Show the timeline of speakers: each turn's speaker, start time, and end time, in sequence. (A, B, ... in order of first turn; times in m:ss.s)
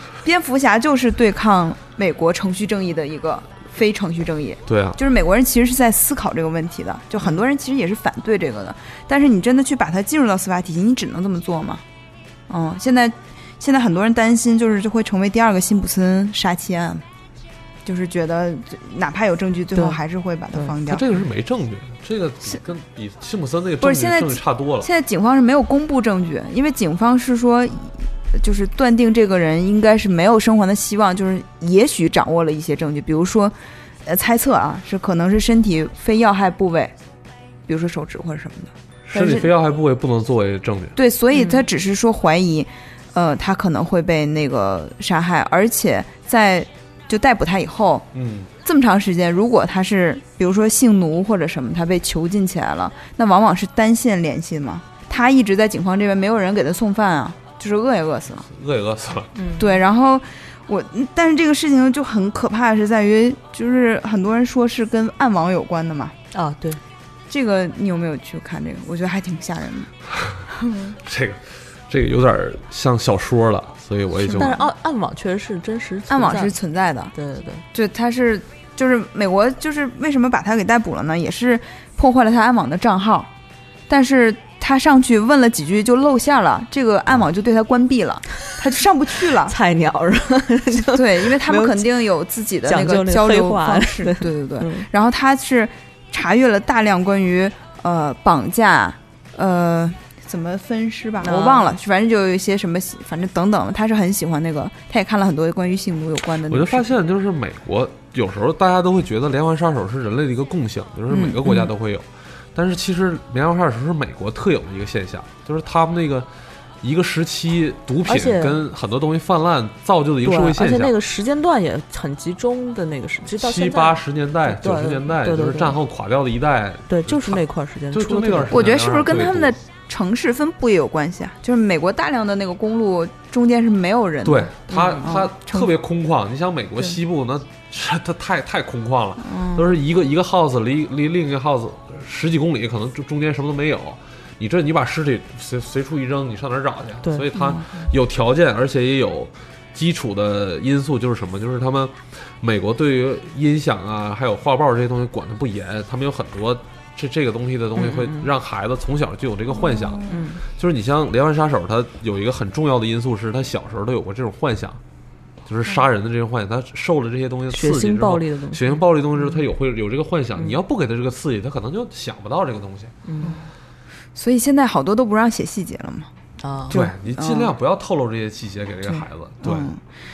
0:00.2-0:11.8 A
0:04.7-0:05.0 B
0:12.5-0:17.0 A
0:17.8-0:21.1 A
0:20.8-0:24.9 B
0:23.8-0:36.9 A
0:37.7-0:39.5 A
0:39.1-0:40.9 B
0:40.9-0:48.1 A
0:41.3-0:41.6 C
0:48.1-0:48.5 B
0:48.6-0:58.5 A
0:58.5-0:59.3 B
0:59.3-0:59.8 C
0:59.6-1:06.2 A
1:06.3-1:06.8 C
1:07.3-1:09.9 A
1:10.1-1:10.4 B
1:10.5-1:11.0 A
1:11.0-1:14.5 B
1:14.3-1:14.5 A
1:14.3-1:16.6 C
1:16.1-1:17.1 A
1:17.1-1:17.6 C
1:17.7-1:23.3 A
1:23.9-1:29.5 A
1:29.4-1:31.9 C
1:30.8-1:46.9 A
1:32.6-1:34.9 C
1:41.2-1:41.8 C
1:46.5-1:56.3 B
1:51.1-1:51.5 A
1:56.8-2:00.9 B
1:58.0-1:58.6 C
2:00.2-2:05.8 C
2:03.3-2:09.6 B
2:06.9-2:08.7 C
2:08.5-2:15.7 A
2:14.2-2:44.8 B
2:14.7-2:15.1 C
2:19.2-2:19.7 A
2:27.0-2:27.6 C
2:37.8-2:38.3 C
2:39.7-2:40.1 A
2:40.1-2:40.4 C
2:45.4-2:52.9 B
2:47.5-2:48.8 C
2:53.0-2:53.4 C
2:53.2-2:53.5 A
2:54.1-2:56.1 A
2:56.4-2:56.8 C
2:56.7-2:57.5 A
2:56.7-2:59.7 B
2:58.9-2:59.8 A